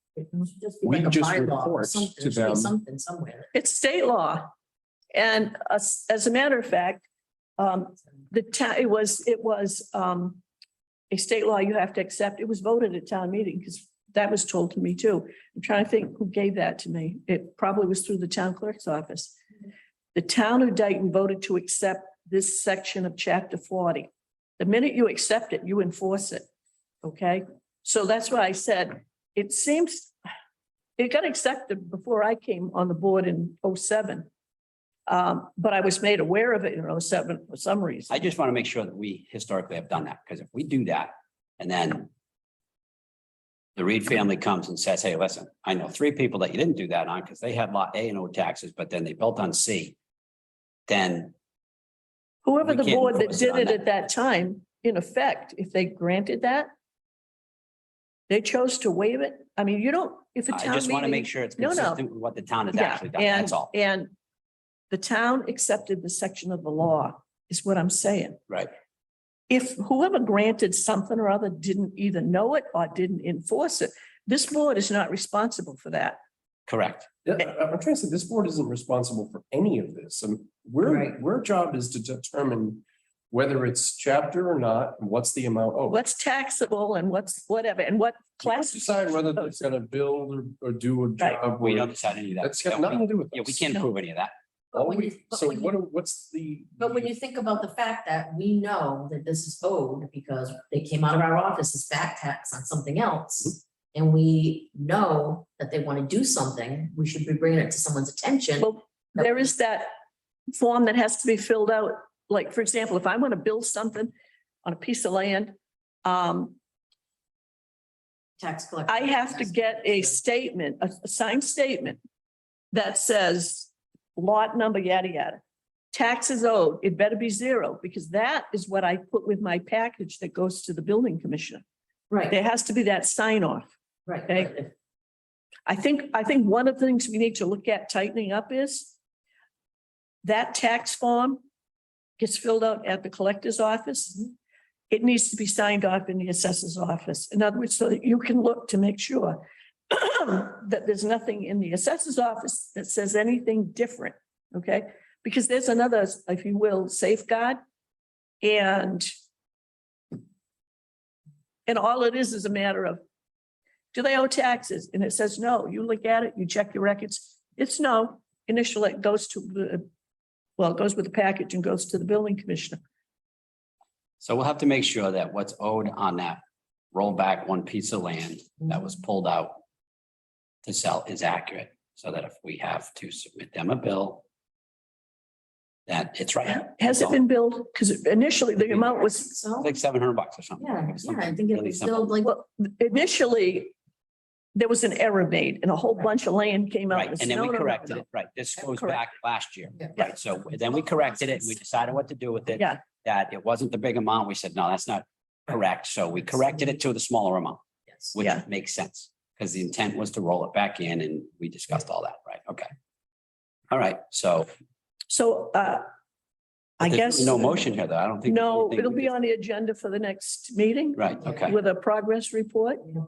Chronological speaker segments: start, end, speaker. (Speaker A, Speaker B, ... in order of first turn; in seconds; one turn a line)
Speaker A: 0.2-3.5
Speaker B: 0.8-2.7
Speaker C: 3.5-4.5
Speaker C: 5.1-7.0
Speaker C: 7.6-10.4
Speaker C: 11.1-19.4
Speaker C: 20.1-26.5
Speaker C: 27.0-30.1
Speaker C: 31.0-34.3
Speaker C: 35.1-38.2
Speaker D: 38.1-42.1
Speaker D: 43.8-50.0
Speaker D: 50.9-51.3
Speaker C: 52.4-56.7
Speaker D: 52.6-53.8
Speaker C: 58.3-62.0
Speaker D: 60.5-63.7
Speaker C: 62.7-64.1
Speaker C: 64.9-68.4
Speaker C: 69.5-76.2
Speaker D: 76.7-77.1
Speaker B: 77.2-86.0
Speaker A: 80.8-81.2
Speaker C: 85.9-89.6
Speaker B: 88.4-93.9
Speaker D: 91.6-94.3
Speaker A: 94.7-95.7
Speaker B: 94.7-97.1
Speaker A: 96.8-109.5
Speaker C: 108.6-109.9
Speaker C: 110.5-114.1
Speaker C: 114.6-116.6
Speaker A: 118.4-120.2
Speaker C: 118.9-122.0
Speaker C: 122.7-125.4
Speaker C: 125.9-131.6
Speaker A: 132.1-132.3
Speaker C: 132.3-133.7
Speaker A: 134.1-134.7
Speaker C: 134.3-134.5
Speaker C: 135.7-138.9
Speaker C: 140.2-141.4
Speaker C: 142.2-144.3
Speaker C: 144.9-157.6
Speaker C: 158.4-159.1
Speaker C: 161.7-163.0
Speaker C: 163.9-169.8
Speaker C: 170.6-172.8
Speaker D: 174.2-176.4
Speaker D: 176.9-179.6
Speaker D: 180.6-184.2
Speaker D: 185.9-187.2
Speaker C: 186.5-189.3
Speaker A: 189.1-189.7
Speaker D: 189.6-192.1
Speaker A: 190.6-192.3
Speaker C: 192.2-193.7
Speaker C: 194.5-198.1
Speaker D: 196.9-207.6
Speaker C: 198.6-199.0
Speaker D: 208.1-212.7
Speaker D: 213.7-214.5
Speaker C: 215.1-215.9
Speaker C: 216.8-217.7
Speaker D: 216.8-219.1
Speaker C: 218.2-222.9
Speaker D: 221.0-221.5